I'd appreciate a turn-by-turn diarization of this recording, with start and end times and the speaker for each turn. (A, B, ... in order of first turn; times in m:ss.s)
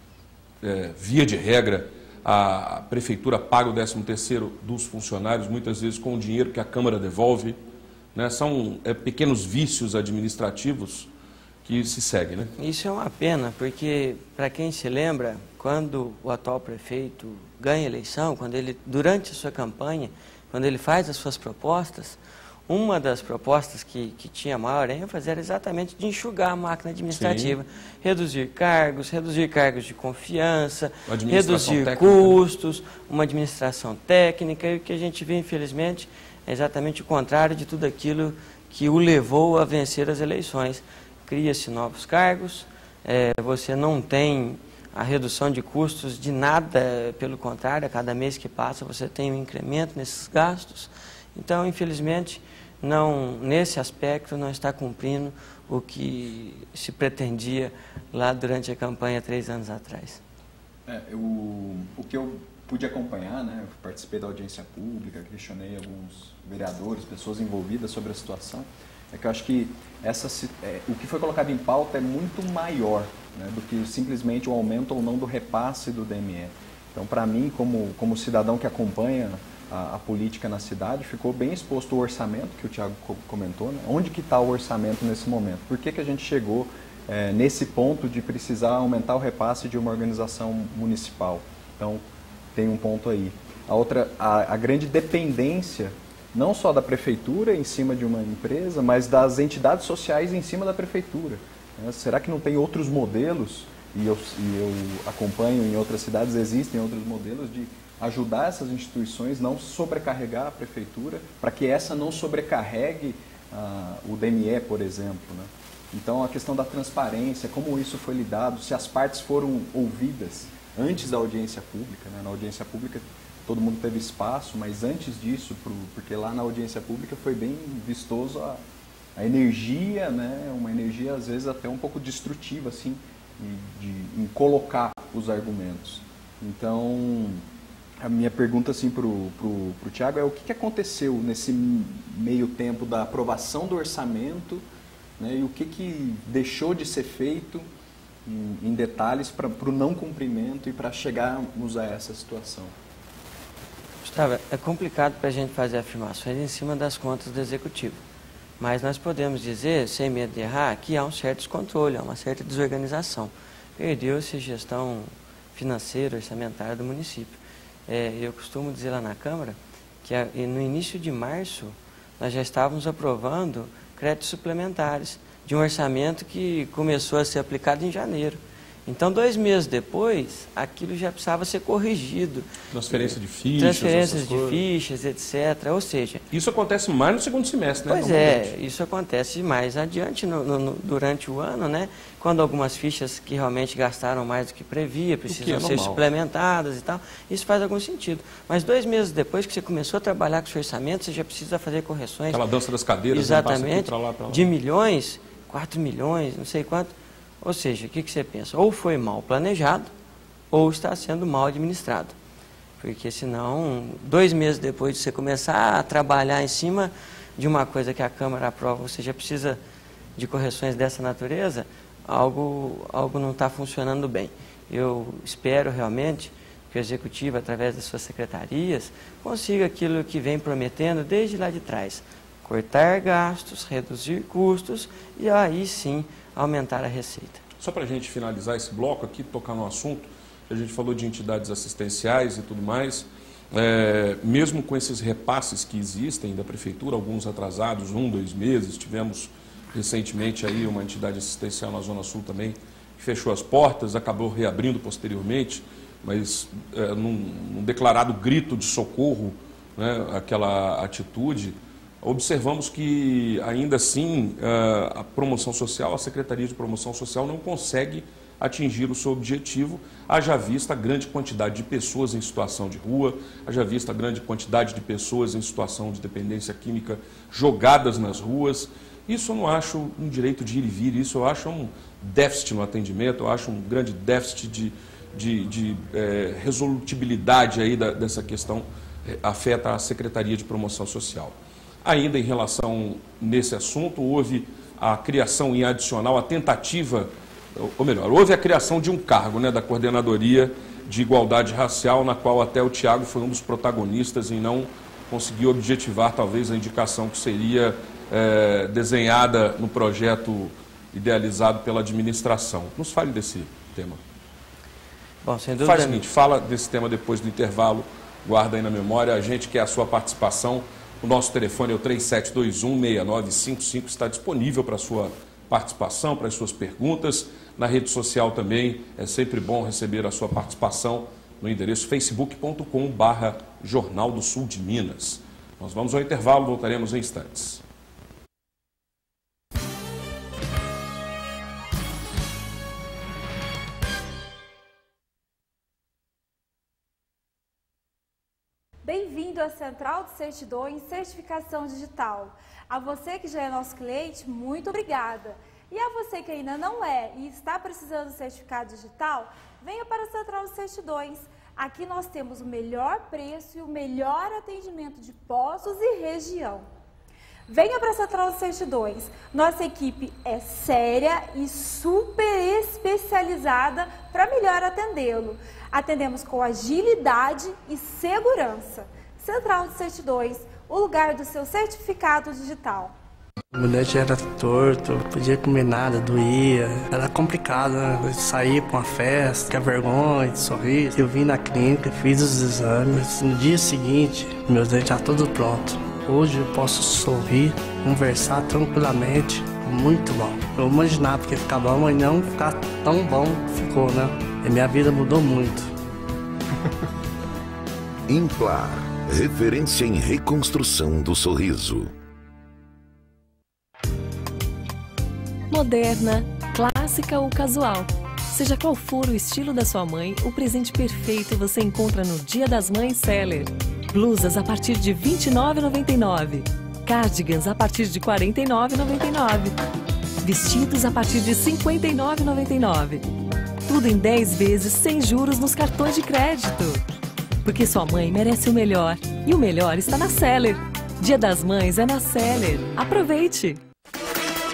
0:00.6-0:07.6 A
0:08.1-0:11.1 A
0:11.6-0:12.5 A
0:12.6-1:00.2 B
0:27.1-0:27.6 A
0:31.1-0:32.4 A
1:00.8-2:08.6 C
2:09.2-2:17.4 C
2:18.0-2:24.6 C
2:25.2-2:27.6 C
2:28.2-2:32.7 C
2:34.0-2:38.0 B
2:38.6-3:06.2 B
3:02.7-3:04.6 A
3:06.3-3:08.5 A
3:07.9-3:22.4 B
3:15.3-3:16.0 A
3:22.3-3:24.5 A
3:23.1-3:29.9 B
3:30.5-3:32.1 B
3:32.8-3:39.6 B
3:40.2-3:57.4 B
3:57.6-5:14.0 A
5:15.2-5:16.0 B
5:15.6-5:37.6 A
5:48.8-6:06.6 D
6:07.5-6:22.9 D
6:23.5-6:45.7 E
6:48.1-6:51.9 F
6:55.5-7:09.6 G
7:10.2-7:13.0 G
7:13.7-7:16.8 G
7:17.4-7:23.6 G